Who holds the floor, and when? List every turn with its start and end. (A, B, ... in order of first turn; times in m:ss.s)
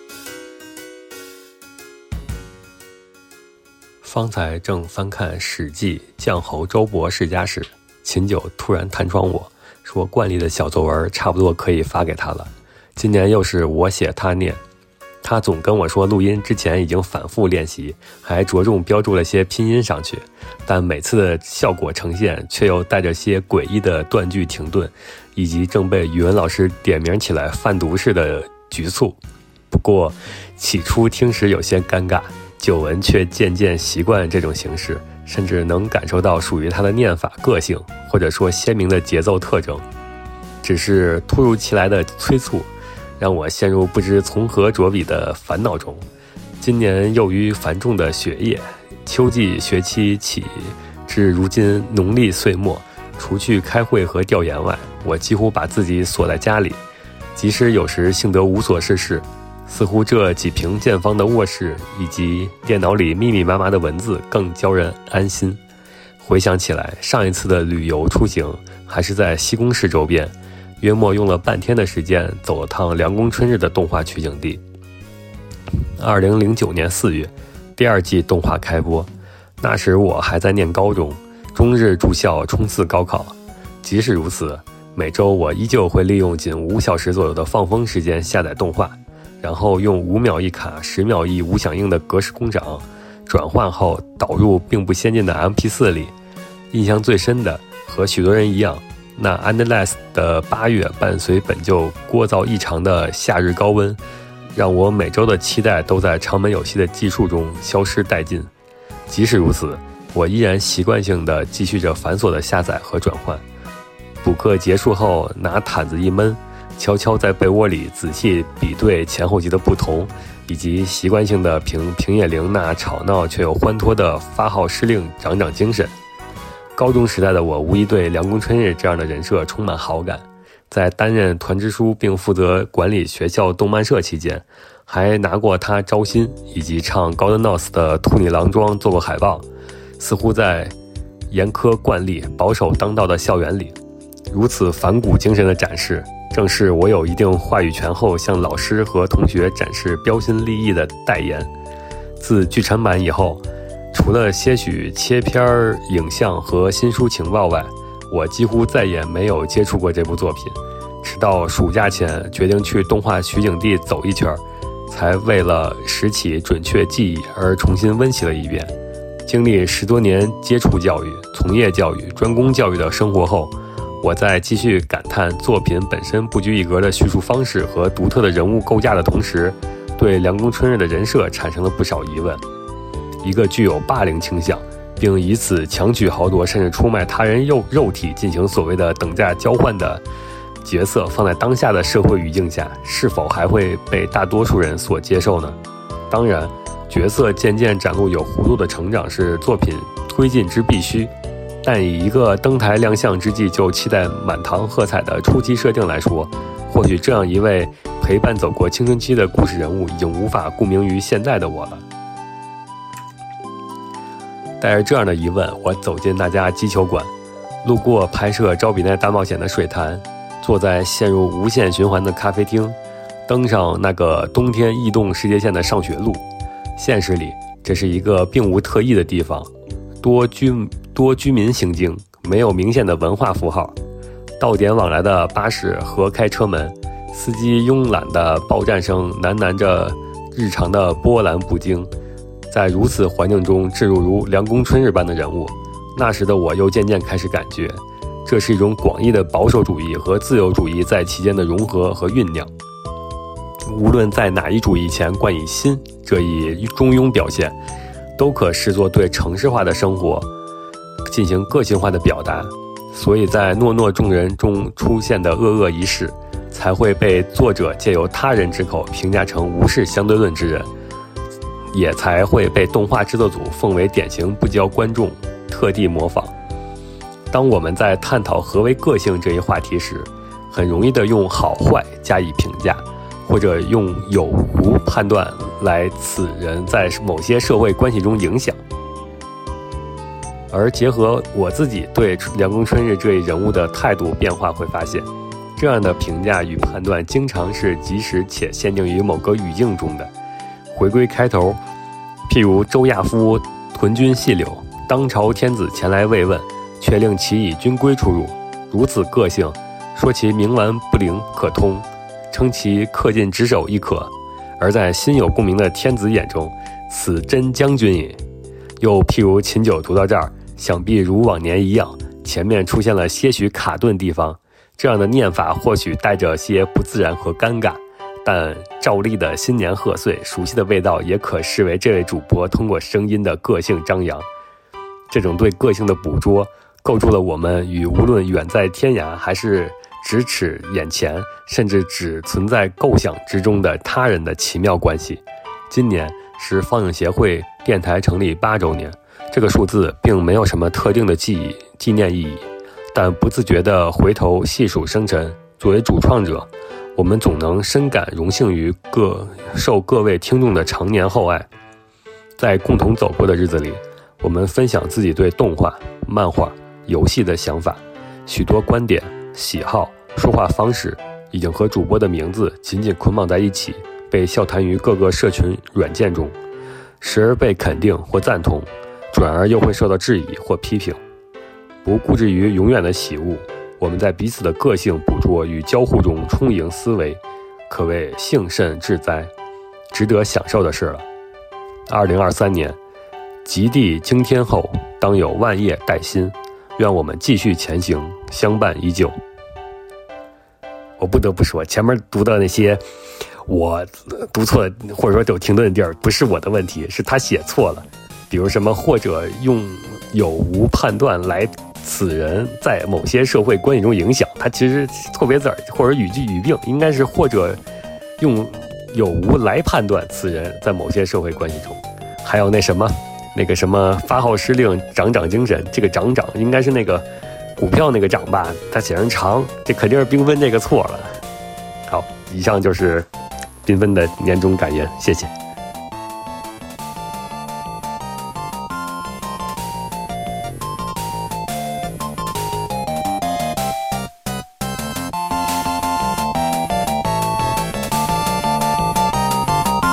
0:04.0-0:14.6 A
0:15.2-0:29.2 A
0:29.7-0:39.8 A
0:40.6-0:46.0 A
0:46.6-0:56.8 A
0:57.4-1:05.6 A
1:06.2-1:14.6 A
1:16.0-1:19.1 A
1:19.6-1:36.1 A
1:36.7-1:44.0 A
1:44.5-1:48.5 A
1:49.1-1:53.4 A
1:54.2-2:05.9 A
2:06.8-2:19.4 A
2:20.0-2:20.7 A
2:21.3-2:23.8 A
2:24.3-2:31.5 A
2:32.2-2:48.7 A
2:49.2-3:02.4 A
3:03.2-3:10.0 A
3:10.6-3:15.6 A
3:16.1-3:21.1 A
3:21.6-3:31.8 A
3:34.6-3:37.1 A
3:37.6-3:42.8 A
3:43.3-3:46.2 A
3:46.8-3:49.5 A
3:50.0-3:53.8 A
3:54.4-4:01.9 A
4:02.5-4:12.5 A
4:13.6-4:17.6 A
4:18.2-4:20.3 A
4:21.0-4:30.7 A
4:31.7-4:36.3 A
4:37.3-4:48.6 A
4:50.5-5:00.1 A
5:00.7-5:01.6 A
5:02.3-5:18.2 A
5:18.8-5:34.3 A
5:35.1-6:01.5 A
6:02.4-6:16.4 A
6:17.0-6:21.0 A
6:21.8-6:29.3 A
6:29.9-6:31.0 A
6:31.9-6:32.8 A
6:33.4-6:39.2 A
6:41.0-6:42.8 A
6:43.5-6:57.6 A
6:58.2-7:07.0 A
7:07.6-7:11.2 A
7:11.9-7:13.1 A
7:13.6-7:15.3 A